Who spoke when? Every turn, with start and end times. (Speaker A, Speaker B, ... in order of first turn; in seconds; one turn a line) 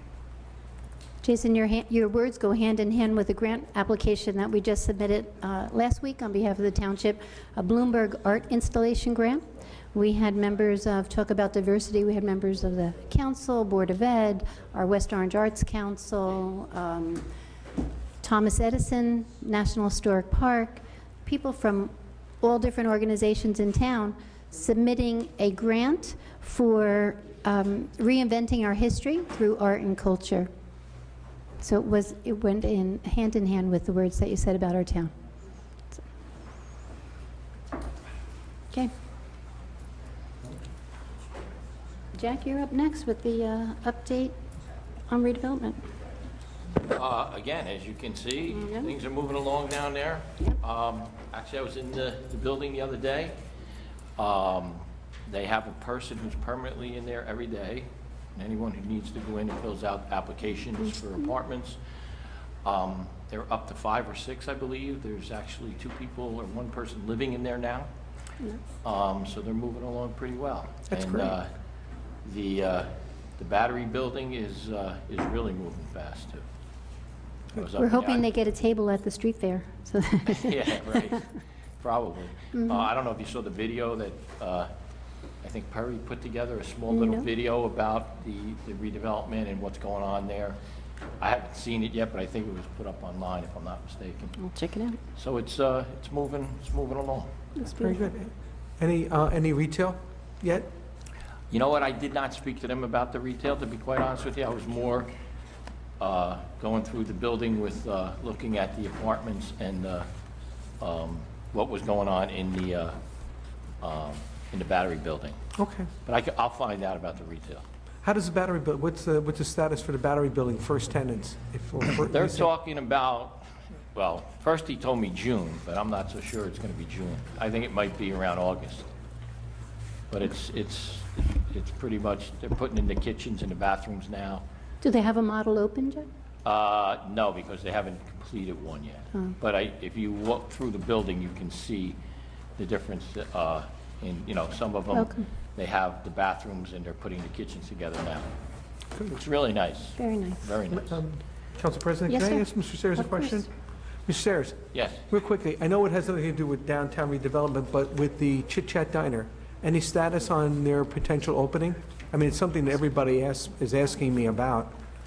Speaker A: 1.2-17.3
Speaker A: 18.2-30.5
Speaker A: 31.6-35.1
Speaker A: 42.1-44.4
Speaker A: 45.1-45.8
Speaker B: 46.9-53.4
Speaker A: 48.5-48.9
Speaker B: 54.2-61.8
Speaker B: 62.6-67.9
Speaker B: 68.8-71.5
Speaker C: 70.9-71.3
Speaker B: 72.2-76.5
Speaker B: 77.5-78.3
Speaker A: 77.8-81.2
Speaker B: 80.3-81.3
Speaker B: 81.8-84.7
Speaker A: 82.5-82.8
Speaker B: 85.4-90.6
Speaker A: 86.9-87.3
Speaker B: 91.2-94.4
Speaker A: 94.4-95.0
Speaker B: 95.2-97.3
Speaker A: 97.5-98.0
Speaker C: 97.8-100.7
Speaker B: 101.5-105.1
Speaker B: 106.0-110.1
Speaker B: 110.8-113.0
Speaker B: 113.8-115.4
Speaker C: 115.6-115.9
Speaker B: 116.0-117.7
Speaker C: 118.0-122.5
Speaker B: 122.1-128.9
Speaker B: 130.1-134.4
Speaker A: 134.8-136.1
Speaker B: 136.4-142.0
Speaker B: 142.6-148.3
Speaker A: 144.9-145.2
Speaker B: 149.1-151.0
Speaker A: 150.0-150.5
Speaker C: 150.7-153.5
Speaker A: 152.1-153.4
Speaker C: 154.0-164.7
Speaker B: 154.7-155.0